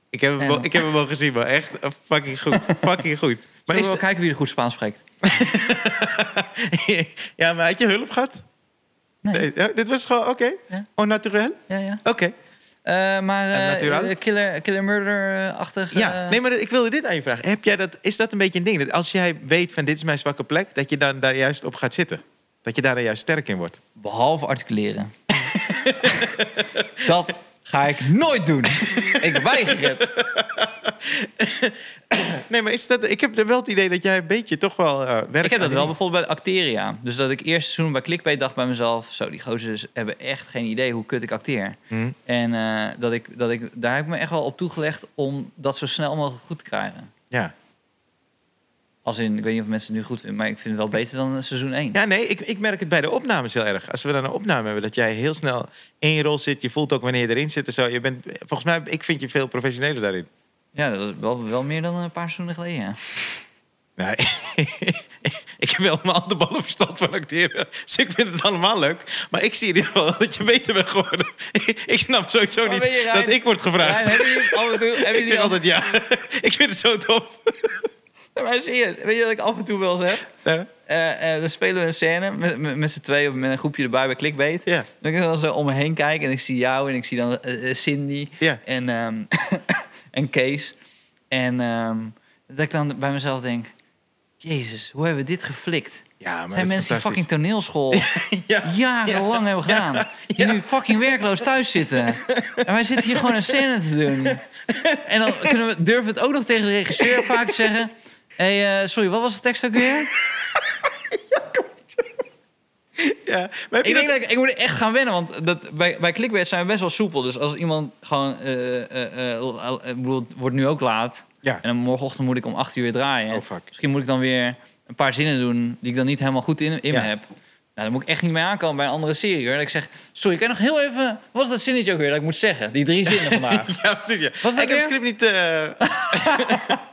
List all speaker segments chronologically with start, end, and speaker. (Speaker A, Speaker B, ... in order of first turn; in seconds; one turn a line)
Speaker A: 0.1-4.0
Speaker B: 0.4-0.8
Speaker B: 2.5-3.0
Speaker B: 3.7-5.0
Speaker A: 5.2-8.4
Speaker B: 9.2-9.5
Speaker A: 9.3-12.3
Speaker B: 11.7-12.0
Speaker B: 12.8-16.4
Speaker A: 13.5-14.1
Speaker A: 15.9-23.8
Speaker B: 23.9-25.1
Speaker A: 25.3-27.1
Speaker B: 26.0-26.4
Speaker B: 27.0-30.1
Speaker A: 28.7-35.9
Speaker B: 35.4-47.1
Speaker B: 49.0-52.0
Speaker A: 51.9-60.3
Speaker B: 60.7-63.2
Speaker A: 64.0-77.9
Speaker B: 72.6-75.6
Speaker B: 78.3-80.3
Speaker A: 80.4-80.7
Speaker B: 80.8-90.7
Speaker B: 91.3-93.7
Speaker B: 94.4-98.1
Speaker A: 96.2-97.2
Speaker A: 97.9-101.2
Speaker B: 98.6-104.4
Speaker A: 102.0-103.6
Speaker A: 104.2-105.5
Speaker B: 105.0-110.1
Speaker A: 106.9-107.7
Speaker A: 110.1-112.1
Speaker A: 113.0-114.1
Speaker B: 113.8-133.8
Speaker A: 123.3-123.7
Speaker A: 133.1-136.8
Speaker B: 134.4-134.9
Speaker B: 135.8-136.8